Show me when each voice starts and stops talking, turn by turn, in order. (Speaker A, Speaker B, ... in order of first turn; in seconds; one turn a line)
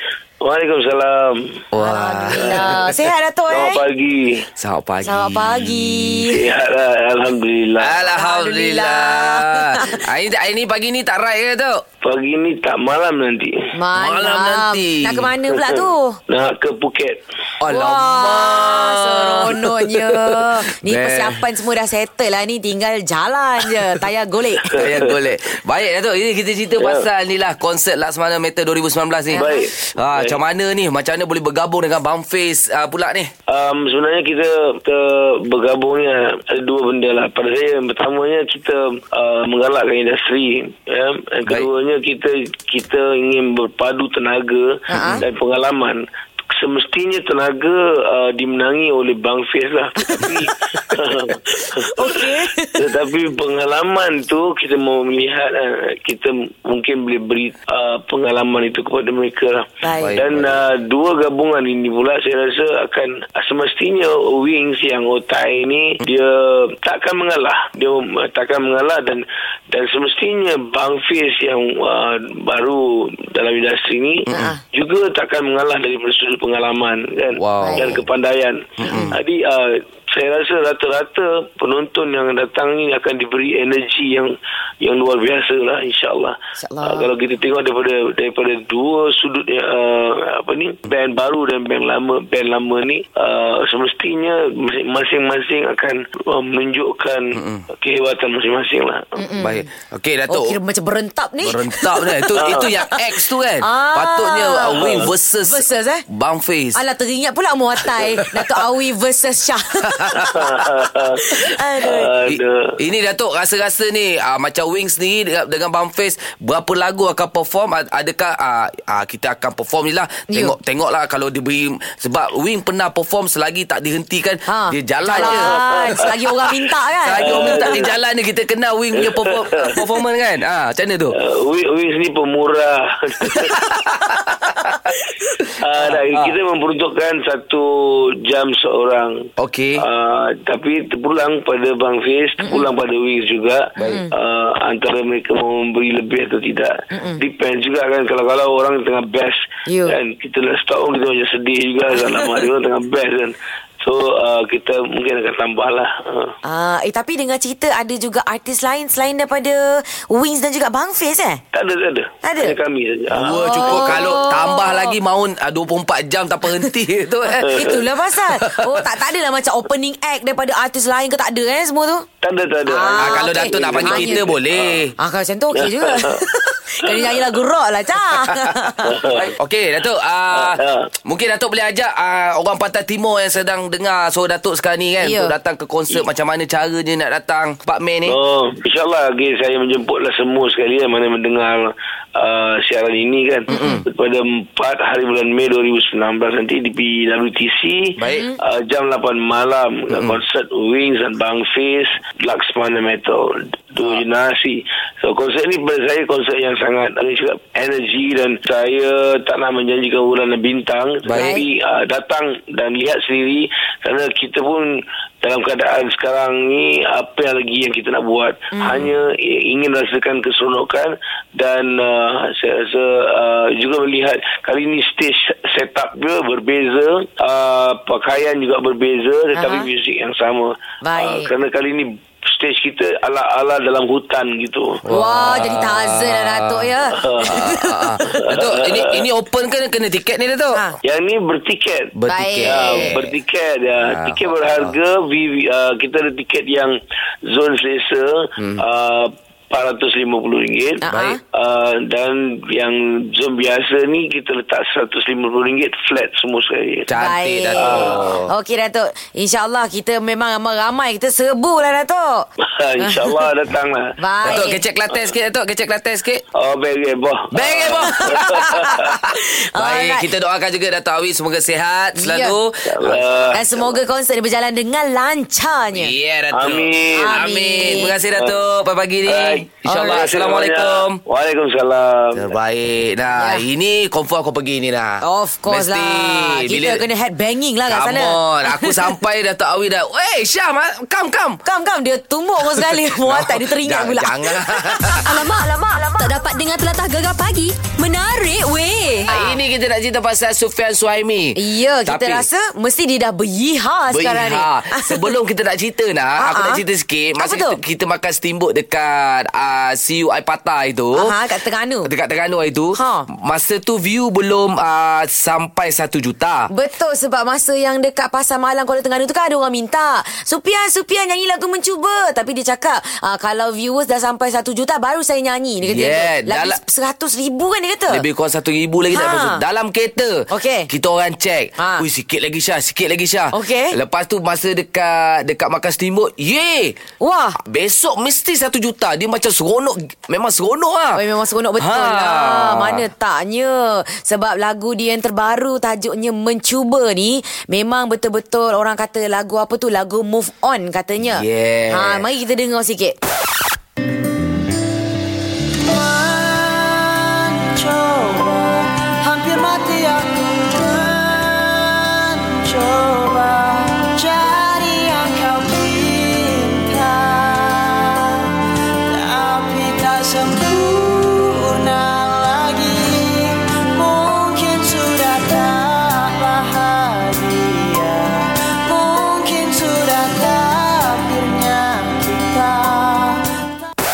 Speaker A: 0.4-1.6
Speaker B: 1.7-2.8
Speaker C: 1.8-3.8
Speaker A: 2.3-2.8
Speaker A: 3.5-4.5
Speaker B: 4.6-6.3
Speaker C: 5.0-6.3
Speaker A: 6.3-8.0
Speaker B: 7.8-11.8
Speaker C: 8.1-10.0
Speaker A: 12.0-13.5
Speaker C: 13.8-16.2
Speaker B: 13.9-15.3
Speaker A: 16.3-17.2
Speaker B: 17.6-19.8
Speaker C: 17.7-24.9
Speaker B: 20.8-21.4
Speaker B: 24.7-33.3
Speaker A: 24.8-25.1
Speaker C: 29.3-29.6
Speaker A: 29.3-30.4
Speaker A: 33.5-46.0
Speaker C: 44.9-45.2
Speaker B: 44.9-45.3
Speaker A: 46.5-99.1
Speaker C: 50.0-50.3
Speaker C: 51.5-52.9
Speaker C: 59.8-60.2
Speaker B: 60.0-60.6
Speaker C: 74.3-74.6
Speaker B: 77.3-78.1
Speaker C: 77.6-78.0
Speaker B: 78.8-79.2
Speaker C: 78.8-79.1
Speaker C: 86.6-87.1
Speaker B: 97.3-97.7
Speaker C: 99.2-99.7
Speaker B: 99.4-100.6
Speaker C: 100.3-103.0
Speaker B: 101.4-106.8
Speaker A: 102.4-102.7
Speaker C: 103.6-106.0
Speaker A: 104.8-105.1
Speaker C: 106.8-110.6
Speaker B: 107.9-108.6
Speaker B: 109.8-110.5
Speaker A: 110.3-112.8
Speaker C: 111.2-112.1
Speaker B: 112.3-126.1
Speaker C: 120.3-120.5
Speaker C: 124.5-127.9
Speaker A: 125.2-126.2
Speaker B: 127.0-131.2
Speaker A: 127.2-127.9
Speaker A: 129.0-129.8
Speaker A: 131.1-133.5
Speaker B: 133.3-134.7
Speaker A: 135.6-139.1
Speaker B: 135.8-136.3
Speaker B: 139.4-139.8
Speaker A: 139.8-156.3
Speaker C: 142.4-142.7
Speaker B: 143.8-144.0
Speaker C: 143.8-144.1
Speaker C: 146.9-147.2
Speaker C: 149.7-150.0
Speaker C: 156.4-161.4
Speaker A: 161.5-164.2
Speaker C: 162.2-162.6
Speaker B: 163.1-168.9
Speaker C: 163.2-164.9
Speaker A: 167.4-167.8
Speaker C: 167.5-172.1
Speaker A: 172.2-174.8
Speaker C: 172.7-174.3
Speaker B: 172.9-174.9
Speaker C: 175.0-179.0
Speaker A: 175.5-176.2
Speaker A: 176.8-177.2
Speaker B: 178.2-188.2
Speaker A: 178.8-179.3
Speaker A: 180.3-180.9
Speaker C: 185.0-185.3
Speaker A: 188.1-234.8
Speaker C: 193.5-193.8
Speaker B: 193.6-193.8
Speaker B: 198.0-198.3
Speaker C: 198.1-198.4
Speaker B: 199.9-200.2
Speaker B: 211.1-211.4
Speaker C: 211.1-211.4
Speaker C: 229.3-229.7
Speaker C: 230.8-231.3
Speaker B: 234.9-240.6
Speaker C: 234.9-238.2
Speaker A: 237.0-237.4
Speaker A: 238.2-239.0
Speaker A: 240.8-246.7
Speaker B: 242.0-243.2
Speaker C: 242.1-242.9
Speaker B: 243.7-244.8
Speaker A: 247.3-250.8
Speaker B: 248.4-248.6
Speaker C: 250.8-251.2
Speaker B: 250.9-251.2
Speaker A: 251.3-256.9
Speaker B: 256.9-258.3
Speaker C: 257.0-262.3
Speaker A: 257.6-258.2
Speaker A: 262.4-263.9
Speaker C: 262.8-263.2
Speaker C: 264.0-264.6
Speaker B: 264.2-266.2
Speaker A: 266.4-268.9
Speaker B: 267.3-273.1
Speaker C: 267.8-270.1
Speaker C: 272.0-272.4
Speaker A: 272.7-273.7
Speaker C: 273.3-275.9
Speaker B: 275.7-281.0
Speaker A: 276.3-277.0
Speaker C: 276.9-277.9
Speaker A: 279.1-282.2
Speaker C: 279.7-280.0
Speaker B: 282.1-286.9
Speaker C: 283.2-283.4
Speaker C: 285.0-288.9
Speaker B: 287.7-291.4
Speaker C: 291.4-294.9
Speaker B: 292.4-295.2
Speaker D: 295.0-299.1
Speaker B: 299.1-302.3
Speaker C: 299.1-299.4
Speaker C: 301.4-305.1
Speaker B: 303.9-311.1
Speaker C: 306.2-306.6
Speaker C: 307.2-307.6
Speaker C: 311.0-311.9
Speaker B: 311.9-316.5
Speaker C: 312.8-313.1
Speaker C: 316.5-328.0
Speaker B: 325.6-326.6
Speaker B: 327.9-336.8
Speaker C: 328.9-329.4
Speaker C: 330.3-330.7
Speaker C: 331.6-331.9
Speaker C: 333.3-333.8
Speaker C: 337.0-337.4
Speaker B: 337.4-341.0
Speaker C: 340.9-353.0
Speaker B: 341.6-342.9
Speaker B: 351.0-352.0
Speaker E: 355.6-368.2
Speaker E: 368.9-383.6